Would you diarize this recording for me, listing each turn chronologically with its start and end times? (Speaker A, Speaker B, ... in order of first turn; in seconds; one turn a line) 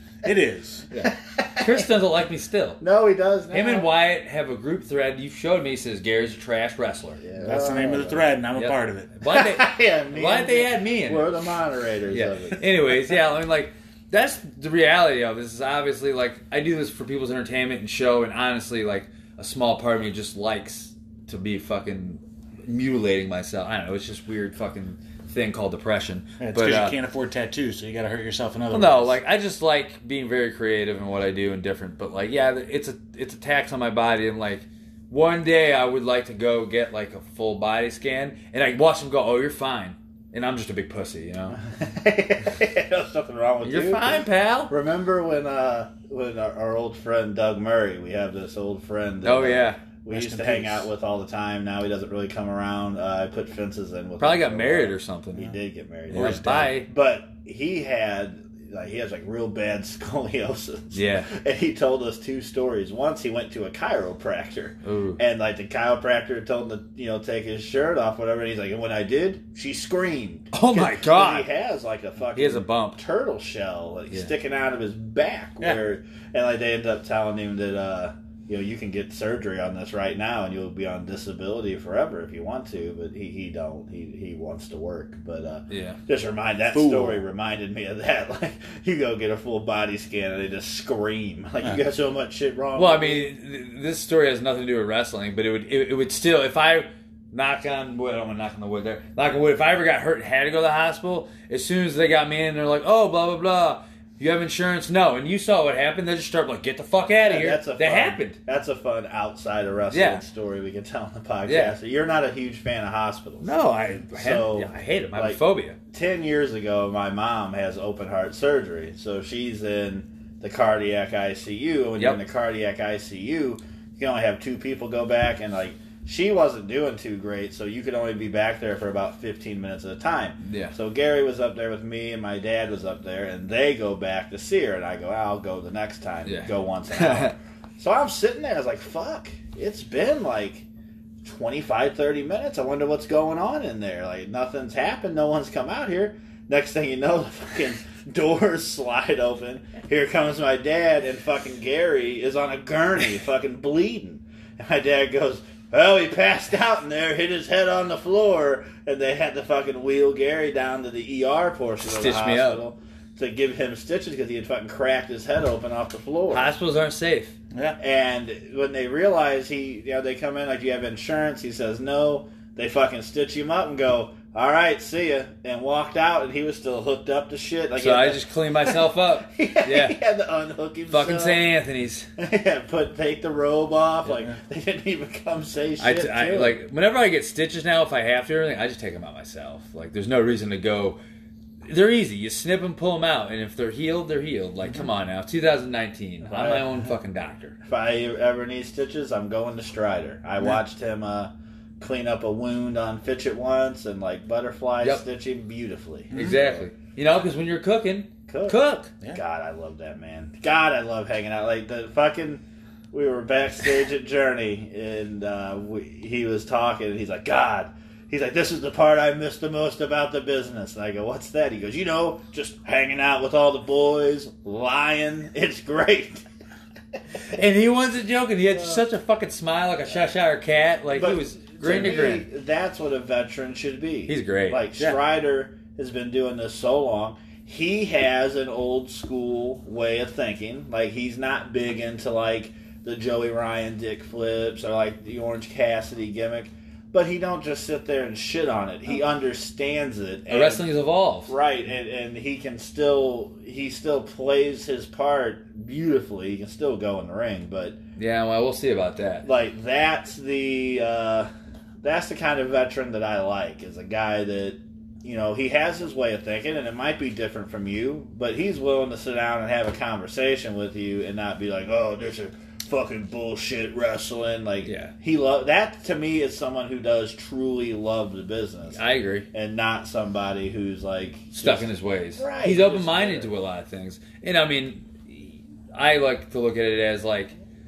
Speaker A: 0.2-0.9
Speaker B: 0.9-2.8
Speaker C: 1.0-1.9
Speaker C: 2.8-3.9
Speaker B: 3.5-7.2
Speaker C: 7.2-8.3
Speaker A: 7.4-9.1
Speaker B: 8.6-11.3
Speaker C: 9.3-12.7
Speaker B: 12.1-27.0
Speaker A: 26.4-29.2
Speaker B: 28.7-41.6
Speaker C: 41.5-93.3
Speaker B: 43.6-44.7
Speaker B: 49.2-49.8
Speaker A: 50.1-50.9
Speaker B: 54.2-55.5
Speaker B: 56.1-56.9
Speaker B: 60.9-61.3
Speaker B: 64.8-65.2
Speaker B: 70.5-71.5
Speaker B: 72.3-73.0
Speaker B: 85.7-86.0
Speaker A: 86.7-87.2
Speaker B: 92.8-108.4
Speaker C: 107.2-113.5
Speaker B: 109.9-110.2
Speaker B: 111.5-111.8
Speaker B: 113.4-115.8
Speaker C: 114.1-115.4
Speaker C: 115.9-140.7
Speaker B: 130.4-130.7
Speaker B: 136.2-137.3
Speaker C: 141.2-166.5
Speaker B: 161.9-162.6
Speaker B: 166.3-167.3
Speaker C: 167.8-181.4
Speaker B: 177.8-180.0
Speaker B: 180.9-182.1
Speaker C: 182.2-186.6
Speaker B: 185.8-191.0
Speaker B: 191.7-197.6
Speaker C: 196.2-196.7
Speaker C: 197.6-206.7
Speaker B: 206.1-208.9
Speaker C: 208.3-208.6
Speaker C: 209.1-226.2
Speaker B: 227.3-232.3
Speaker C: 228.5-228.8
Speaker C: 230.9-250.7
Speaker B: 234.1-234.6
Speaker B: 250.3-251.3
Speaker C: 251.3-257.8
Speaker B: 258.0-259.3
Speaker C: 259.2-261.3
Speaker C: 261.8-278.8
Speaker B: 274.7-274.9
Speaker B: 278.7-279.3
Speaker C: 279.3-283.3
Speaker B: 281.4-287.3